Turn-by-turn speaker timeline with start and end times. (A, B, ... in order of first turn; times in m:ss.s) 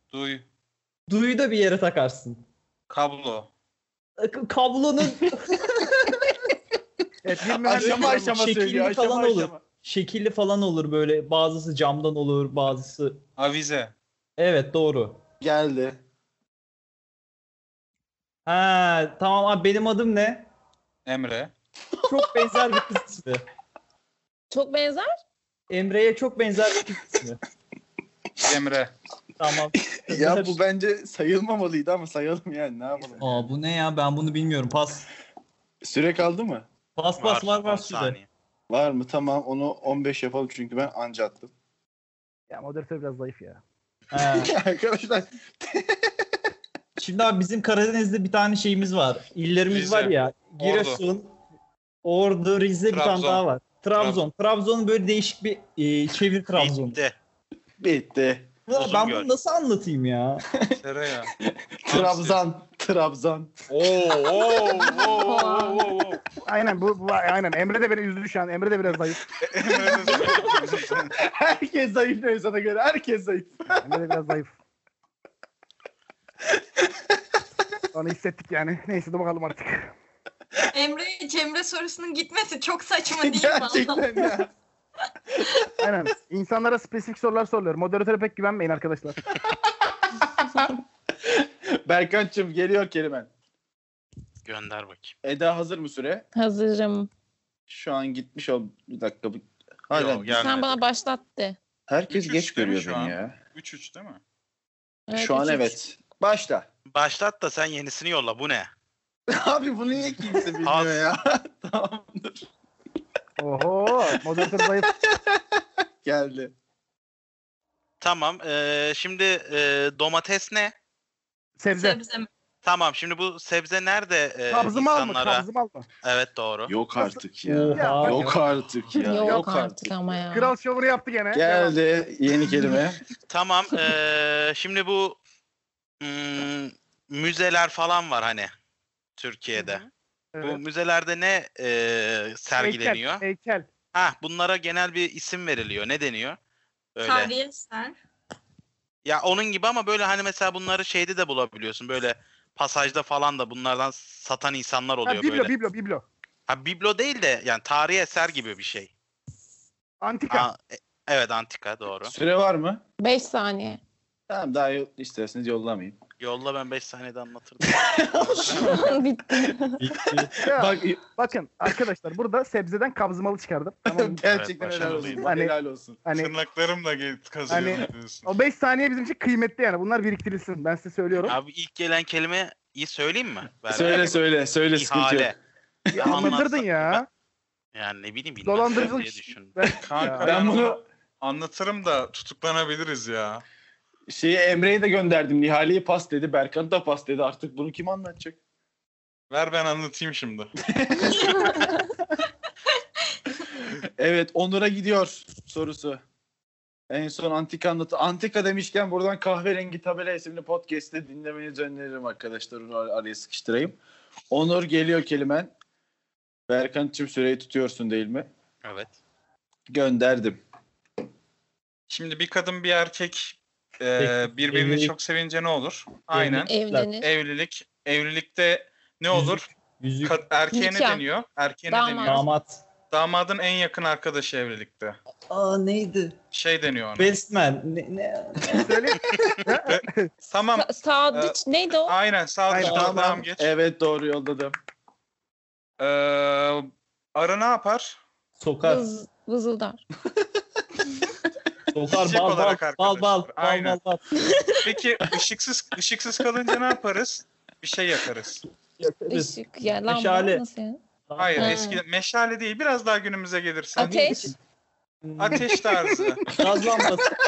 0:00.1-0:00.4 A
0:01.1-0:02.4 B
0:02.9-0:03.5 A
0:04.2-0:05.9 B
0:07.2-0:08.3 C
0:07.6-0:09.6 D
0:07.7-0:13.2 B
0:13.4-0:13.9 A
0:14.4-0:15.2 B
0:15.4-0:16.0 D
0:18.4-0:20.5 B
0:21.0-0:21.5 A
0:22.0-0:23.4 B
0:24.5-0:25.1 E
0:25.7-0:27.4 B
0:28.4-0:28.9 A
0:29.4-0:30.6 B
0:29.9-0:33.2 D
0:33.0-0:33.4 C
0:33.2-0:35.1 B
0:35.8-0:36.6 D
0:37.0-0:38.2 B
0:37.2-0:38.3 F
0:38.7-0:41.5 D
0:42.5-0:43.6 C
0:44.1-0:44.5 B
0:44.3-0:46.1 D
0:47.0-0:51.3 B
0:49.7-0:51.0 A
0:52.0-0:57.0 B
0:52.9-0:53.4 A
0:54.0-0:54.2 A
0:56.5-0:57.1 F
0:57.8-0:58.5 D
0:58.7-1:00.4 B
0:58.7-0:59.3 F
1:00.8-1:01.3 A
1:01.4-1:03.5 D
1:01.9-1:02.4 A
1:03.7-1:06.2 A
1:05.2-1:05.9 E
1:06.4-1:09.2 C
1:09.4-1:11.1 A
1:10.2-1:10.5 D
1:11.1-1:13.8 D
1:13.8-1:14.5 C
1:16.5-1:17.0 D
1:17.9-1:19.9 C
1:20.7-1:24.1 G
1:23.2-1:24.5 D
1:25.8-1:29.2 C
1:30.1-1:30.7 D
1:31.2-1:33.3 D
1:34.4-1:35.1 F
1:35.2-1:36.2 D
1:36.3-1:37.1 E
1:37.7-1:40.4 D
1:39.9-1:40.8 F
1:40.4-1:41.6 E
1:41.9-1:43.4 D
1:42.1-1:44.2 A
1:45.1-1:45.8 E
1:45.1-1:46.6 D
1:46.9-1:48.7 F
1:49.3-1:52.5 D
1:50.6-1:51.0 F
1:53.4-1:54.9 C
1:54.1-1:55.4 D
1:56.0-1:56.5 D
1:58.0-2:00.7 F
2:01.6-2:02.0 C
2:01.7-2:02.3 G
2:02.6-2:05.4 F
2:04.5-2:05.8 C
2:06.0-2:06.7 F
2:06.7-2:10.2 D
2:07.4-2:08.4 B
2:07.7-2:08.3 C
2:09.0-2:10.5 E
2:10.3-2:11.7 C
2:11.3-2:13.0 D
2:13.3-2:15.2 F
2:16.0-2:18.5 F
2:19.2-2:19.8 F
2:19.6-2:19.8 C
2:20.3-2:20.6 C
2:20.4-2:23.2 F
2:22.6-2:23.6 C
2:23.9-2:26.4 F
2:27.0-2:27.3 F
2:27.0-2:28.0 G
2:29.0-2:35.5 F
2:35.0-2:36.0 C
2:36.5-2:38.9 F
2:40.0-2:40.5 C
2:40.3-2:42.1 F
2:42.0-2:42.8 D
2:43.0-2:43.8 E
2:44.3-2:46.0 D
2:46.2-2:48.8 F
2:47.6-2:49.6 D
2:48.5-2:49.8 E
2:49.8-2:50.3 B
2:50.4-2:51.0 D
2:50.4-2:54.2 C
2:53.9-2:56.0 D
2:54.3-2:55.3 F
2:54.8-2:55.1 A
2:55.1-2:55.5 C
2:56.0-2:56.3 C
2:56.1-2:58.3 A
2:57.5-3:01.4 C
3:01.2-3:05.3 F
3:03.7-3:05.3 D
3:05.9-3:07.0 C
3:05.9-3:06.4 D
3:05.9-3:07.0 F
3:07.7-3:09.6 F
3:08.4-3:10.3 C
3:09.8-3:13.4 A
3:10.2-3:10.8 D
3:14.1-3:18.4 D
3:19.3-3:20.5 A
3:20.6-3:21.5 D
3:21.1-3:21.6 G
3:24.0-3:26.0 D
3:26.9-3:33.8 D
3:34.3-3:35.5 D
3:36.5-3:38.3 D
3:38.6-3:38.9 F
3:39.7-3:40.4 D
3:41.9-3:49.5 A
3:44.0-3:44.9 B
3:46.1-3:46.9 B
3:46.5-3:47.1 E
3:49.1-3:50.2 B
3:50.0-3:52.2 A
3:50.5-3:51.0 E
3:51.7-3:52.3 E
3:52.0-3:52.6 B
3:52.9-3:55.0 A
3:55.3-3:56.2 B
3:56.3-3:57.1 A
3:57.0-3:58.7 B
3:58.4-4:00.1 C
3:59.6-4:03.5 A
4:00.5-4:02.0 E
4:02.5-4:03.0 C
4:02.6-4:04.5 D
4:05.8-4:08.0 A
4:08.4-4:08.8 B
4:08.6-4:09.8 E
4:11.7-4:14.0 B
4:11.9-4:13.8 A
4:14.2-4:14.7 E
4:14.6-4:18.4 A
4:18.8-4:20.4 B
4:19.1-4:20.8 E
4:21.1-4:21.7 B
4:21.2-4:24.1 A
4:21.4-4:21.8 E
4:23.8-4:24.3 E
4:23.8-4:24.3 B
4:25.0-4:25.5 B
4:25.2-4:26.2 A
4:26.3-4:27.1 B